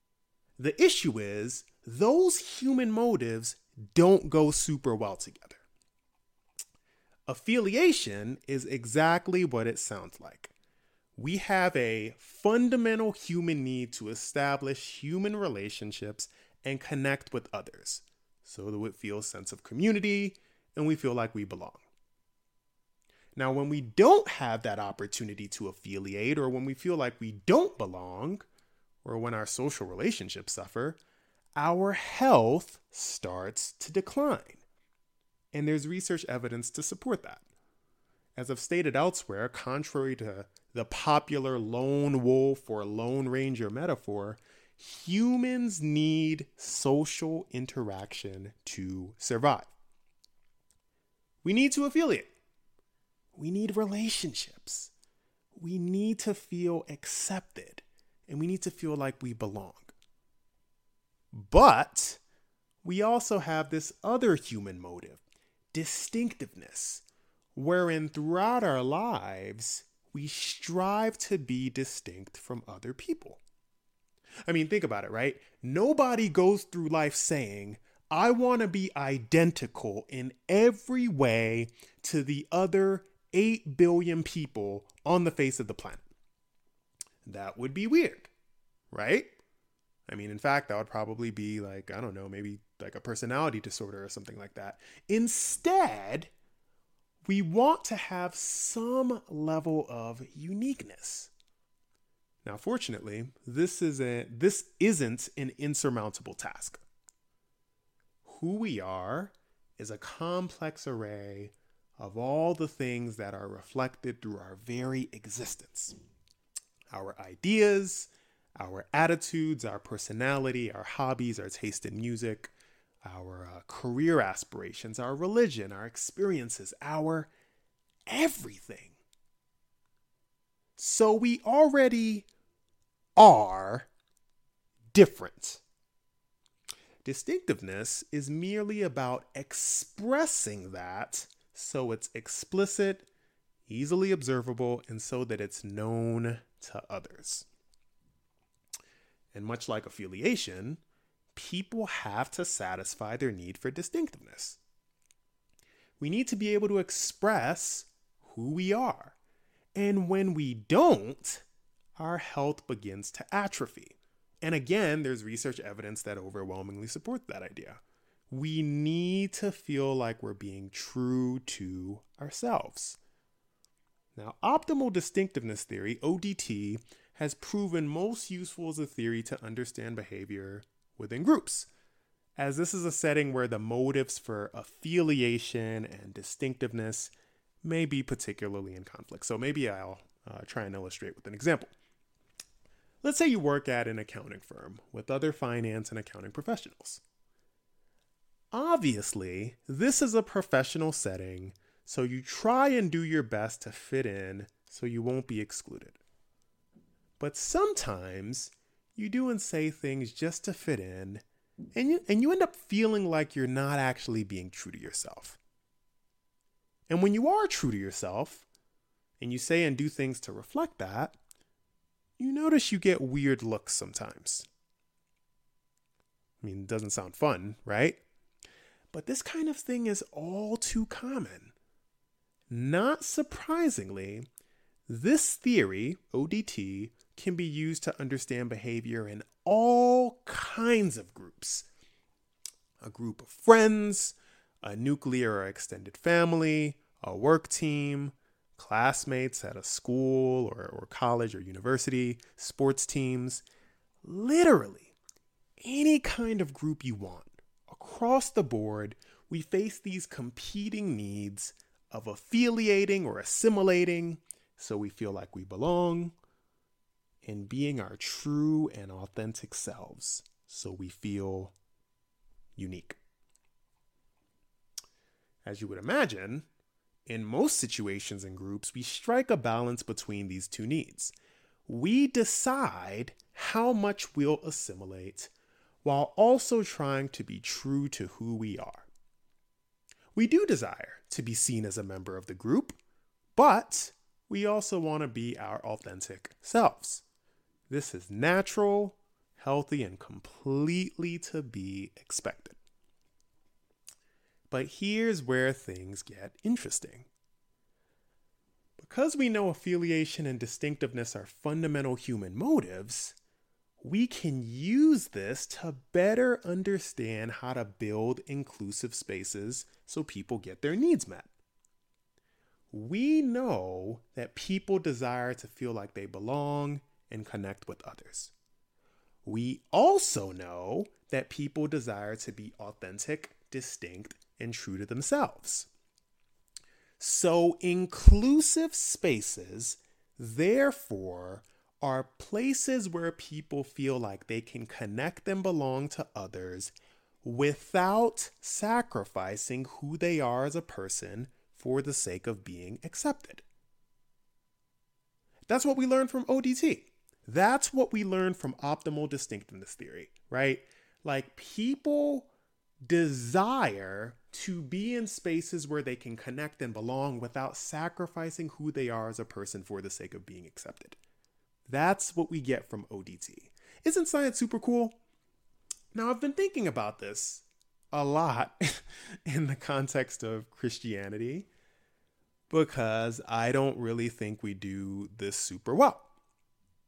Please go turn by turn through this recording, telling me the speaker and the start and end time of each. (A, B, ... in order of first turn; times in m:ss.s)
0:00.6-0:05.6 A
0:07.3-0:10.5 A
0:11.2-0:21.8 A
0:23.4-0:28.4 A
0:29.0-0:31.0 A
0:31.6-0:34.6 A
0:35.5-0:37.5 A
0:38.4-0:49.7 A
0:51.4-0:52.3 A
0:53.4-0:54.9 A
0:55.6-0:59.9 A
1:01.3-1:02.2 A
1:02.8-1:05.2 A
1:05.7-1:07.0 A
1:07.6-1:13.4 A
1:14.5-1:26.0 A
1:27.2-1:28.3 A
1:28.9-1:29.4 A
1:30.1-1:36.3 A
1:37.2-1:41.3 A
1:42.4-1:46.8 A
1:48.2-1:55.9 A
1:56.9-2:02.5 A
2:03.0-2:07.3 A
2:08.1-2:09.0 A
2:10.8-2:12.3 A
2:13.2-2:13.9 A
2:14.9-2:15.6 A
2:17.0-2:23.1 A
2:23.7-2:27.5 A
2:29.3-2:30.8 A
2:31.3-2:34.6 A
2:36.0-2:39.2 A
2:39.8-2:41.4 A
2:42.0-2:53.0 A
2:54.2-3:01.7 A
3:02.4-3:07.1 A
3:07.6-3:11.7 A
3:13.0-3:17.0 A
3:18.5-3:26.0 A
3:27.2-3:31.2 A
3:31.8-3:35.4 A
3:36.9-3:38.5 A
3:39.2-3:41.2 A
3:42.2-3:44.4 A
3:46.4-3:48.0 A
3:48.9-3:51.5 A
3:52.5-3:54.3 A
3:54.9-4:01.7 A
4:02.8-4:13.4 A
4:14.0-4:14.9 A
4:15.6-4:26.2 A
4:27.2-4:31.5 A
4:32.6-4:33.0 A
4:35.4-4:36.5 A
4:37.1-4:41.1 A
4:41.7-4:45.3 A
4:45.8-4:48.9 A
4:50.2-4:52.8 A
4:53.4-4:57.0 A
4:57.7-5:02.6 A
5:04.5-5:07.1 A
5:08.8-5:13.2 A
5:13.8-5:21.3 A
5:22.7-5:28.3 A
5:29.2-5:35.7 A
5:37.0-5:53.4 A
5:55.5-6:02.3 A
6:02.9-6:11.0 A
6:11.7-6:15.0 A
6:15.9-6:21.5 A
6:22.5-6:26.1 A